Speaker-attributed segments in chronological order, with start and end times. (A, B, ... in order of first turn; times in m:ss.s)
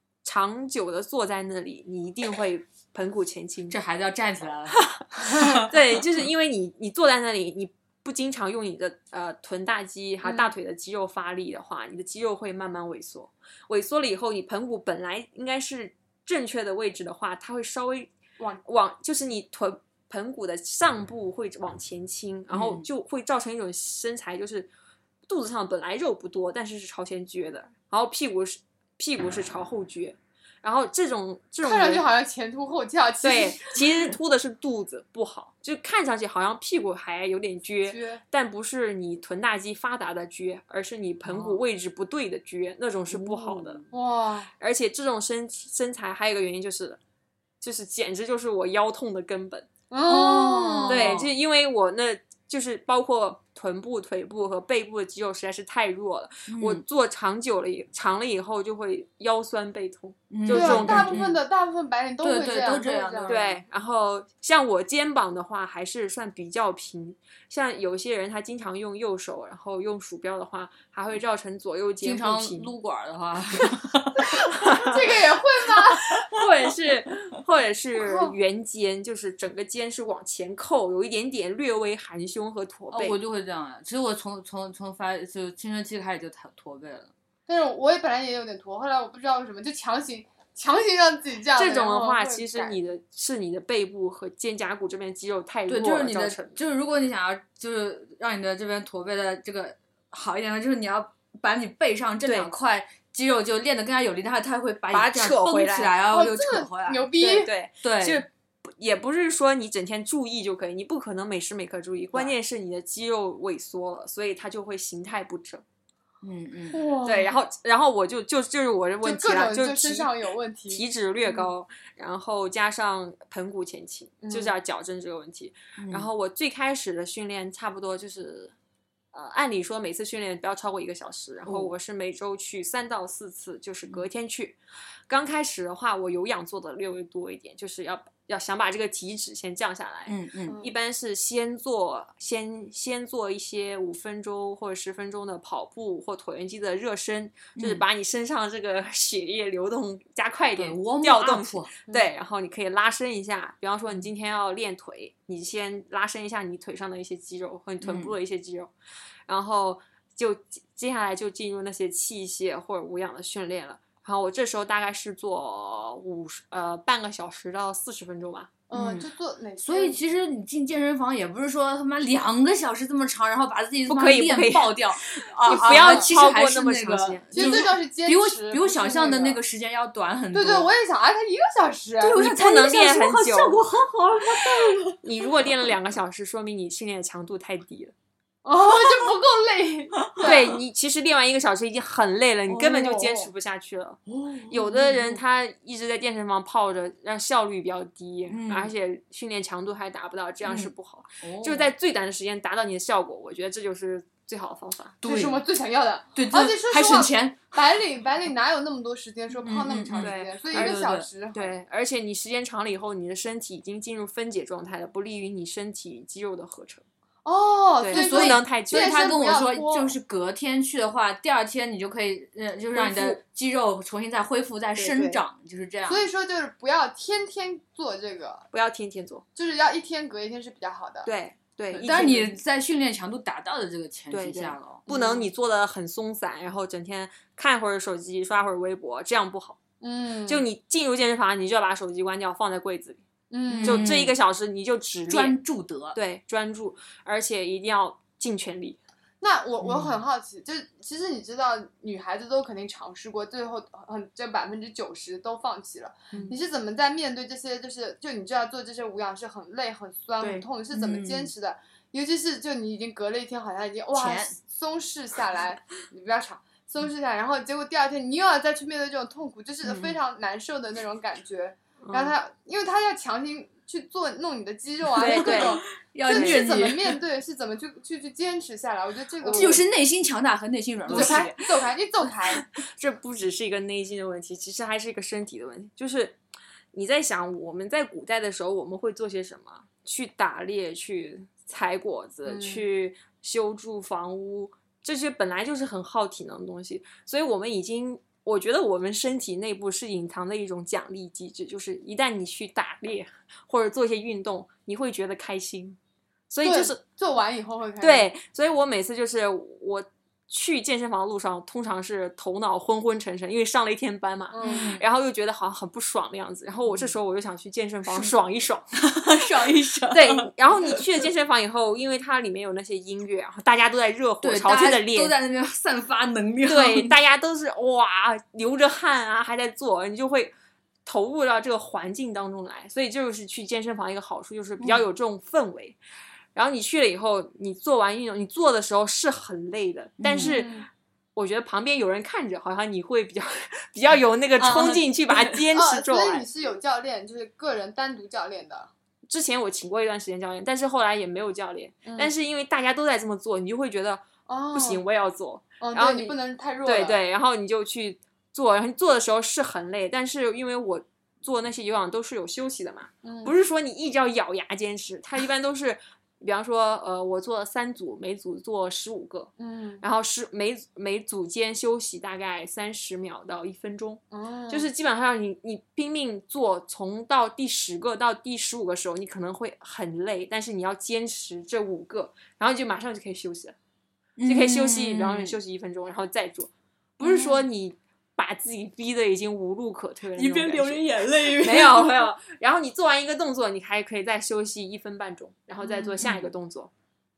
0:00.2-0:03.8 A
0:03.7-0:05.7 B
0:05.3-0:18.1 A
0:10.2-0:10.5 C
0:18.6-0:24.7 A
0:22.5-0:22.8 B
0:25.3-0:32.1 A
0:31.6-0:33.7 C
0:33.2-0:43.8 A
0:37.8-0:38.2 C
0:41.2-0:41.6 B
0:43.1-0:43.9 B
0:43.9-0:44.5 C
0:44.6-0:47.0 A
0:47.6-0:49.7 A
0:49.9-0:51.2 C
0:50.0-0:51.3 B
0:50.9-1:01.2 A
0:56.5-0:56.8 B
1:00.3-1:01.4 B
1:00.5-1:03.6 C
1:02.2-1:03.5 B
1:03.2-1:12.7 A
1:12.0-1:14.8 B
1:14.6-1:15.0 A
1:14.8-1:16.0 C
1:16.1-1:23.2 A
1:18.0-1:18.3 C
1:22.9-1:27.1 B
1:27.5-1:32.8 C
1:31.5-1:36.6 A
1:35.7-1:47.1 B
1:42.2-1:42.5 A
1:44.9-1:46.0 A
1:46.1-1:47.5 C
1:47.2-1:55.6 A
1:47.8-1:48.2 B
1:56.2-1:56.8 B
1:56.7-1:57.4 C
1:57.0-2:00.1 A
1:59.0-2:01.5 C
2:00.7-2:08.5 A
2:04.2-2:04.5 C
2:05.8-2:06.1 B
2:09.1-2:14.6 A
2:11.4-2:11.7 B
2:15.1-2:38.7 A
2:20.1-2:20.6 B
2:20.4-2:20.7 C
2:27.6-2:27.8 B
2:30.6-2:31.7 B
2:37.8-2:38.1 B
2:39.3-2:48.5 A
2:48.7-2:50.0 C
2:48.7-2:49.1 B
2:49.6-3:00.7 B
2:53.9-2:57.7 A
2:55.5-2:56.1 C
2:57.3-2:59.4 C
3:00.3-3:02.2 C
3:02.0-3:05.0 B
3:02.2-3:03.6 A
3:05.0-3:07.9 A
3:08.4-3:10.5 C
3:10.0-3:10.3 B
3:10.2-3:25.0 A
3:12.5-3:13.2 B
3:14.1-3:15.2 B
3:18.3-3:18.7 B
3:20.4-3:21.7 B
3:25.0-3:25.4 B
3:25.0-3:31.5 C
3:26.1-3:27.5 B
3:29.4-3:31.1 B
3:30.0-3:36.8 A
3:37.2-3:39.9 C
3:37.8-3:39.1 A
3:37.9-3:46.1 B
3:42.7-3:43.2 A
3:44.8-3:45.2 A
3:45.9-3:48.5 C
3:48.5-3:49.2 A
3:49.4-3:51.1 C
3:51.0-3:52.3 A
3:51.7-3:52.2 C
3:51.8-3:54.8 B
3:54.1-3:59.6 A
3:54.9-3:55.3 C
3:59.8-4:00.4 C
4:00.3-4:03.0 A
4:03.3-4:03.9 C
4:03.5-4:04.2 B
4:03.6-4:05.4 A
4:05.1-4:06.0 B
4:05.9-4:08.8 A
4:09.2-4:39.6 C
4:09.6-4:10.0 B
4:20.7-4:21.3 B
4:23.9-4:24.4 B
4:29.7-4:29.9 B
4:31.8-4:32.1 A
4:35.0-4:36.4 A
4:35.0-4:36.9 B
4:39.2-4:39.6 A
4:39.3-4:41.4 B
4:40.9-4:42.4 C
4:40.9-4:41.3 A
4:42.6-4:46.2 A
4:46.7-5:05.8 A
4:52.2-4:52.6 C
5:06.3-5:06.8 A
5:06.4-5:08.1 C
5:07.8-5:18.7 A
5:14.3-5:14.7 C
5:14.4-5:14.8 B
5:17.9-5:18.1 B
5:18.8-5:20.8 B
5:19.9-5:25.1 A
5:24.2-5:26.9 B
5:26.5-5:30.3 A
5:30.8-5:35.8 A
5:34.6-5:34.8 B
5:36.3-5:40.6 A
5:40.0-5:40.4 B
5:40.2-5:40.7 C
5:41.2-5:46.3 A
5:44.4-5:44.8 C
5:45.5-5:48.7 C
5:49.1-6:09.3 A
5:51.8-5:52.1 C
5:54.3-5:54.8 C
5:55.6-5:57.0 C
6:03.0-6:03.3 C
6:09.4-6:09.8 C
6:09.8-6:23.6 A
6:14.1-6:14.7 C
6:24.2-6:25.4 B
6:24.2-6:36.7 A
6:30.2-6:32.0 B
6:35.6-6:36.0 C
6:36.0-6:36.3 B